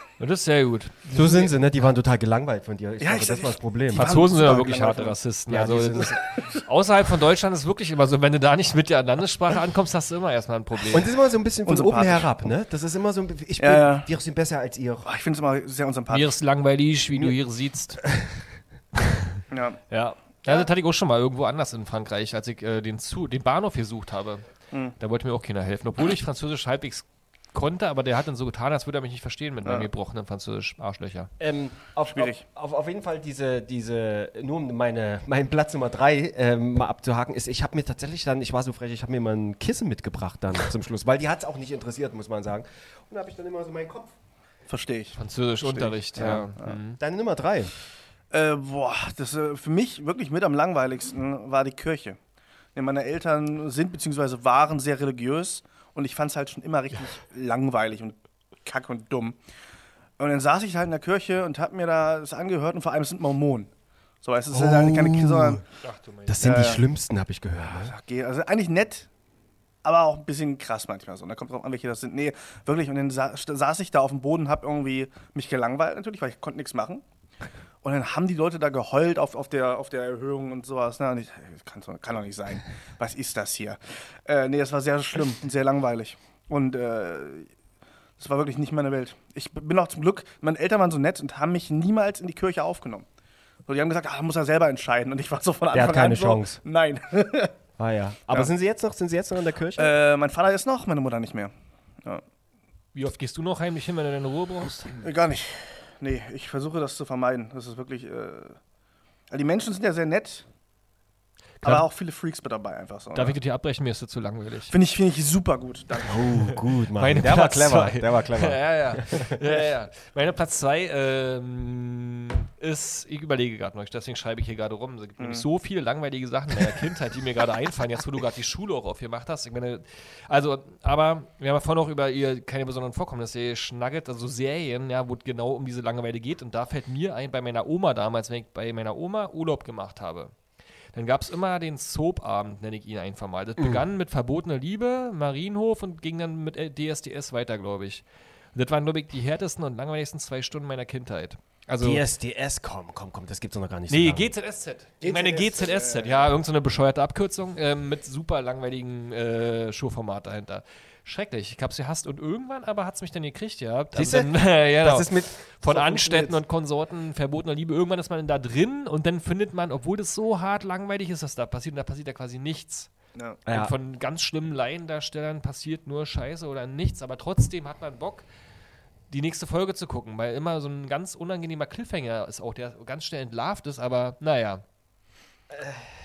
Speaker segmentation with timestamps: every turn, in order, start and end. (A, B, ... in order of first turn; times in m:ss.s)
0:00.2-0:01.5 A
0:01.1-0:04.1 B
0:03.0-0:05.2 C
0:03.9-0:11.1 A
0:05.5-0:06.2 B
0:06.3-0:06.6 C
0:10.9-0:15.1 B
0:11.6-0:12.3 C
0:13.6-0:14.1 C
0:15.0-0:16.3 C
0:16.1-0:18.0 A
0:19.0-0:19.2 A
0:19.5-0:19.8 C
0:19.9-0:24.4 A
0:25.0-0:31.3 A
0:31.4-0:44.1 B
0:32.0-0:32.4 C
0:44.7-0:46.8 C
0:45.2-0:47.0 A
0:46.2-0:47.7 B
0:48.3-0:52.2 C
0:52.8-0:59.4 C
1:00.2-1:03.7 C
1:04.2-1:05.6 C
1:04.5-1:05.6 B
1:05.8-1:06.7 A
1:06.3-1:07.9 B
1:06.4-1:06.8 C
1:07.6-1:09.1 C
1:09.8-1:17.0 C
1:17.8-1:27.5 C
1:28.2-1:33.0 C
1:33.7-1:37.5 C
1:35.7-1:36.6 B
1:37.8-1:39.9 B
1:39.8-1:41.5 C
1:42.9-1:44.9 A
1:45.0-1:48.6 C
1:49.3-1:50.4 C
1:51.6-1:53.4 C
1:53.1-1:54.7 A
1:54.7-1:56.4 C
1:56.0-1:59.4 B
1:57.0-2:20.3 A
2:05.2-2:05.4 C
2:20.9-2:28.0 A
2:28.5-2:32.0 A
2:31.8-2:34.3 B
2:33.9-2:52.9 A
2:35.0-2:36.3 C
2:43.9-2:45.3 B
2:45.7-2:46.4 C
2:53.1-2:53.4 C
2:53.4-2:53.7 B
2:53.5-2:58.2 A
2:59.1-3:04.6 A
3:05.5-3:05.8 B